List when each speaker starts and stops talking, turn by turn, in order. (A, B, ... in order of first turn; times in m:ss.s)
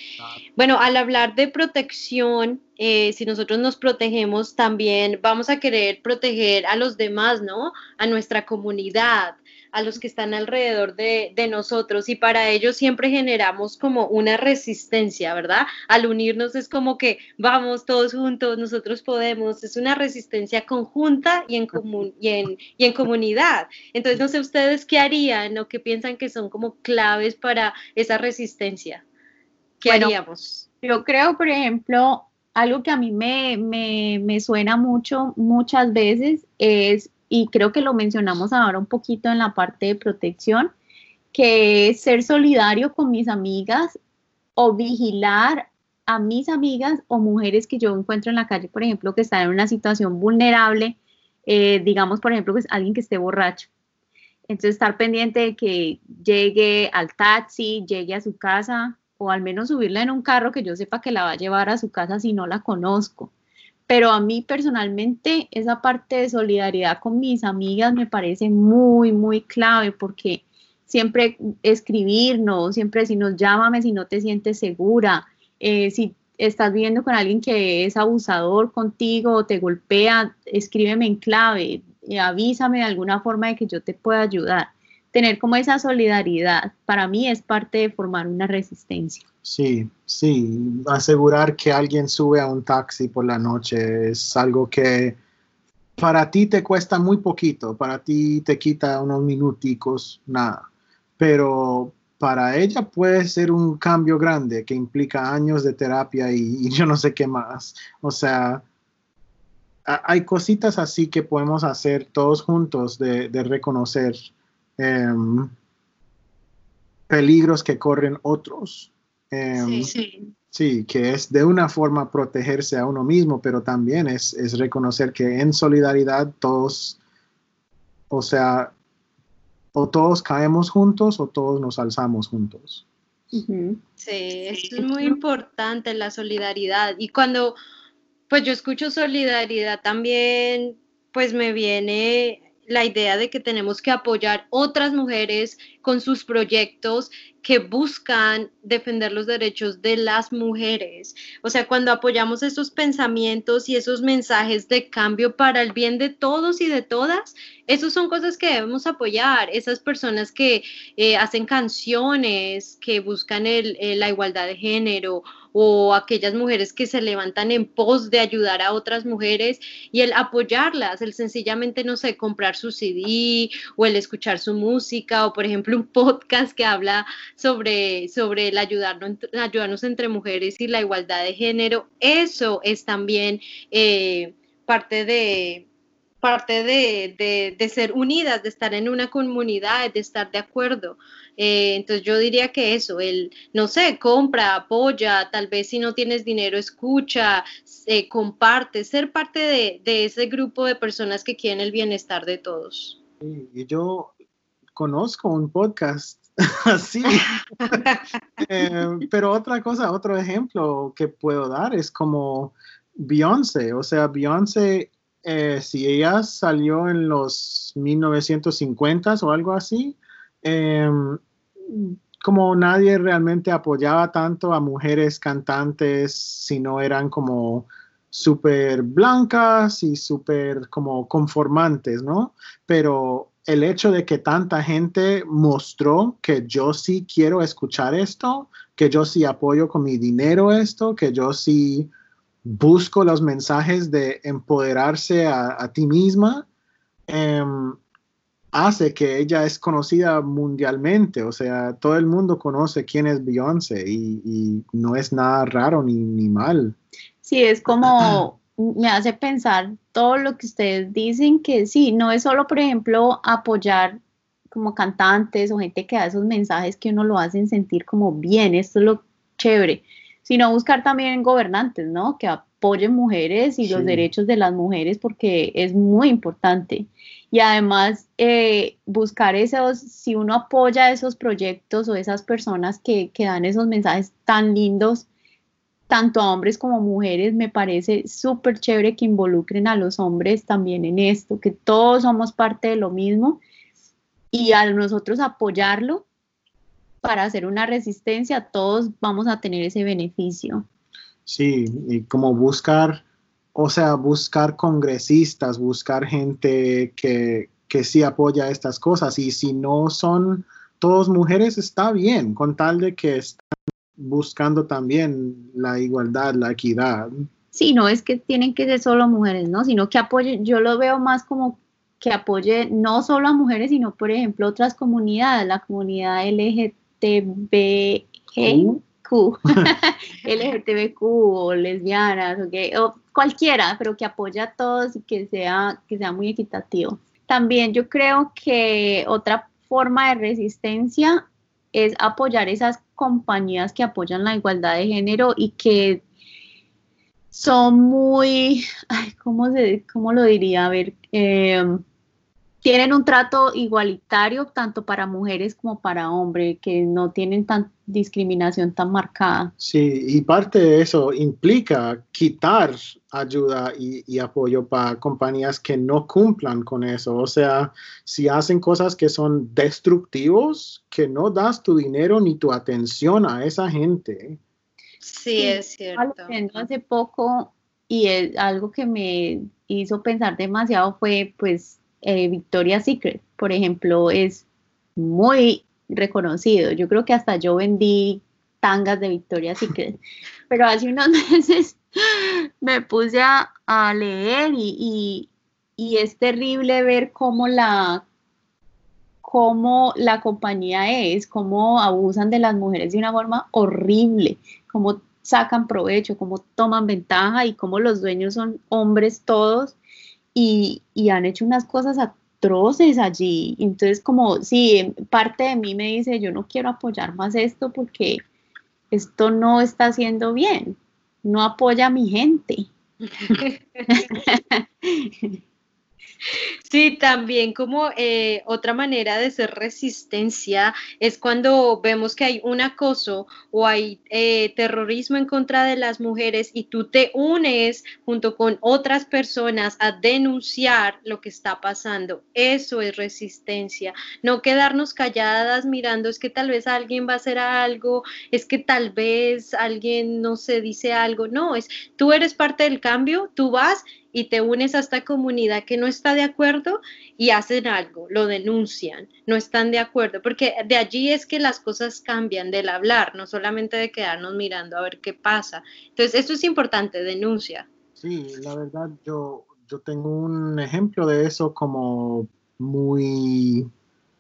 0:00.6-0:29.0 A
0:29.8-0:30.6 A
0:29.8-0:30.1 B
0:30.8-0:40.7 B
0:41.3-0:44.0 B
0:44.6-0:53.7 B
0:54.5-1:03.3 B
1:03.9-1:29.2 B
1:29.4-1:35.2 C
1:36.0-1:40.7 C
1:41.2-1:48.6 C
1:49.8-1:55.5 C
1:57.1-1:59.9 C
1:59.5-2:00.0 A
2:00.5-2:07.0 C
2:08.1-2:08.7 C
2:09.7-2:12.8 C
2:13.3-2:13.8 B
2:14.0-2:17.6 A
2:14.5-2:15.2 B
2:18.3-3:05.6 A
3:06.2-3:23.0 A
3:23.2-3:24.1 C
3:24.8-3:27.8 C
3:27.7-3:28.0 A
3:28.4-4:01.9 C
4:02.4-4:06.4 C
4:07.1-4:07.8 C
4:08.5-4:16.8 C
4:17.2-4:24.0 B
4:24.5-4:45.0 B
4:33.6-4:34.1 C
4:45.9-4:53.4 B
4:54.3-4:56.0 B
4:57.0-5:00.6 B
5:01.2-5:03.0 C
5:03.5-5:17.1 C
5:17.5-5:46.0 B
5:28.4-5:28.8 C
5:47.3-5:51.8 B
5:52.6-5:59.5 B
5:59.6-6:14.4 C
6:15.0-6:16.6 A
6:15.4-6:24.4 B
6:25.0-6:30.0 B
6:30.5-6:38.0 B
6:39.2-6:49.8 B
6:50.3-6:58.2 B
6:58.9-7:02.7 B
7:03.2-7:04.0 A
7:03.9-7:05.4 B
7:06.6-7:47.7 A
7:48.0-7:53.7 C